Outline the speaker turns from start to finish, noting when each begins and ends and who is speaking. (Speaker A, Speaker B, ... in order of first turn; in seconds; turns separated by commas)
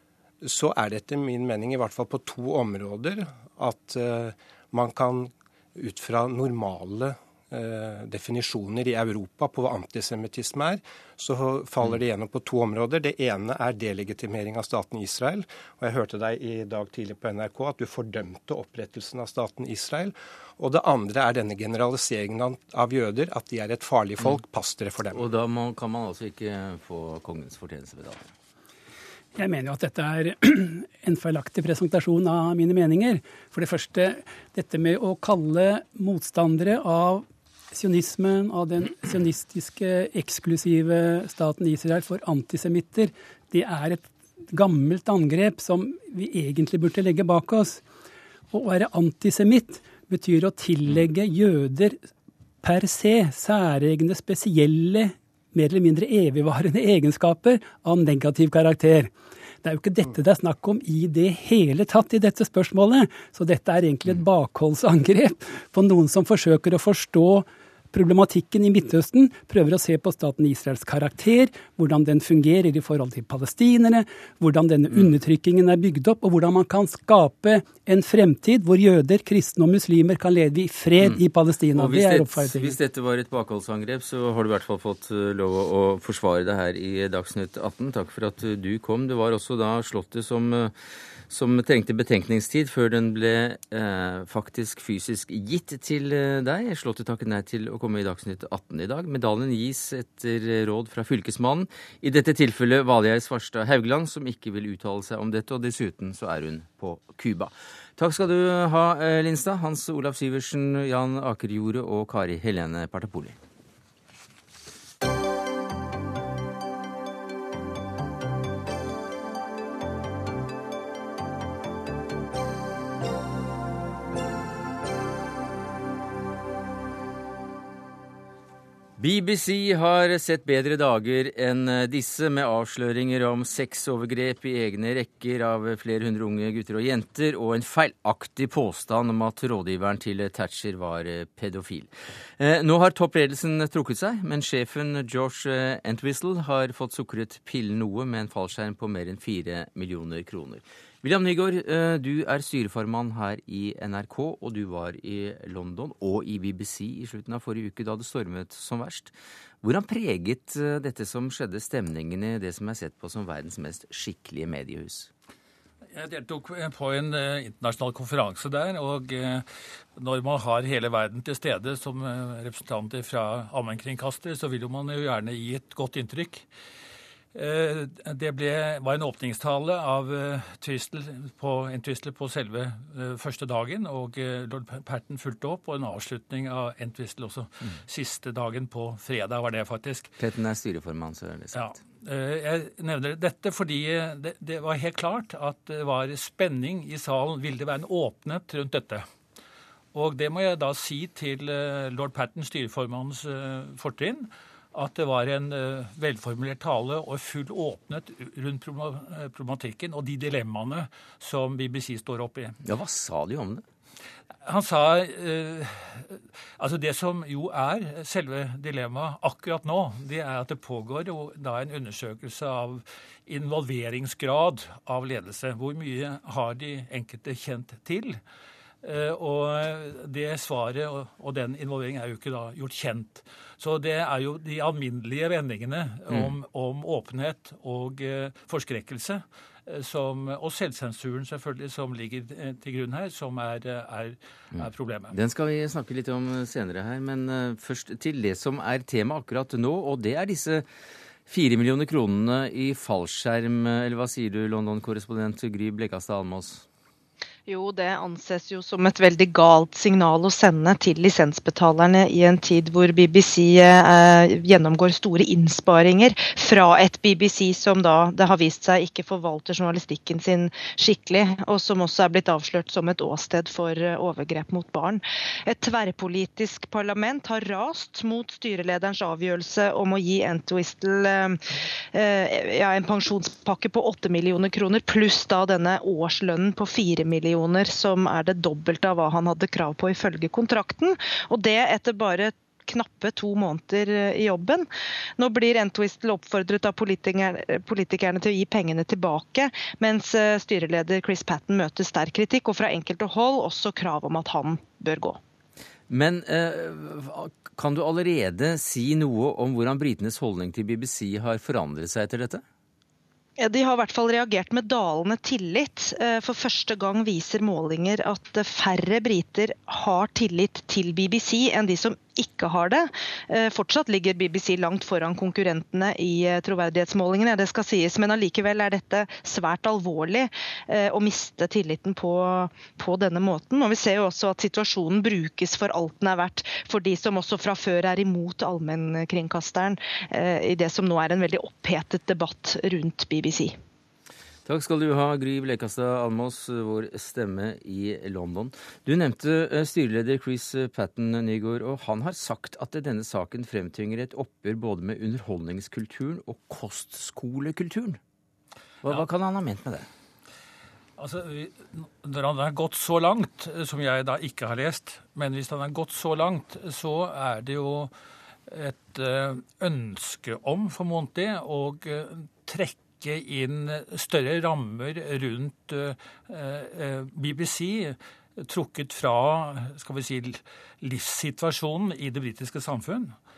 Speaker A: 0.4-25.2, Speaker B: 25.1-28.3, Speaker C: 29.4-47.8, Speaker C: 48.5-52.0, Speaker C: 52.6-59.1, Speaker C: 59.6-82.8, Speaker B: 81.7-90.7, Speaker B: 91.3-113.4, Speaker B: 129.0-165.1, Speaker D: 165.9-176.5, Speaker D: 177.3-190.1, Speaker B: 190.2-191.7, Speaker D: 191.5-199.1, Speaker D: 199.9-212.6, Speaker B: 212.6-213.6, Speaker D: 214.4-228.2, Speaker D: 228.8-245.1, Speaker B: 244.5-250.7, Speaker B: 251.3-256.6, Speaker E: 257.5-281.4, Speaker E: 281.9-294.7, Speaker E: 295.2-305.2, Speaker B: 305.9-312.4, Speaker E: 313.4-343.6, Speaker B: 344.5-358.0, Speaker B: 358.8-359.9, Speaker D: 361.0-367.9, Speaker D: 368.5-383.1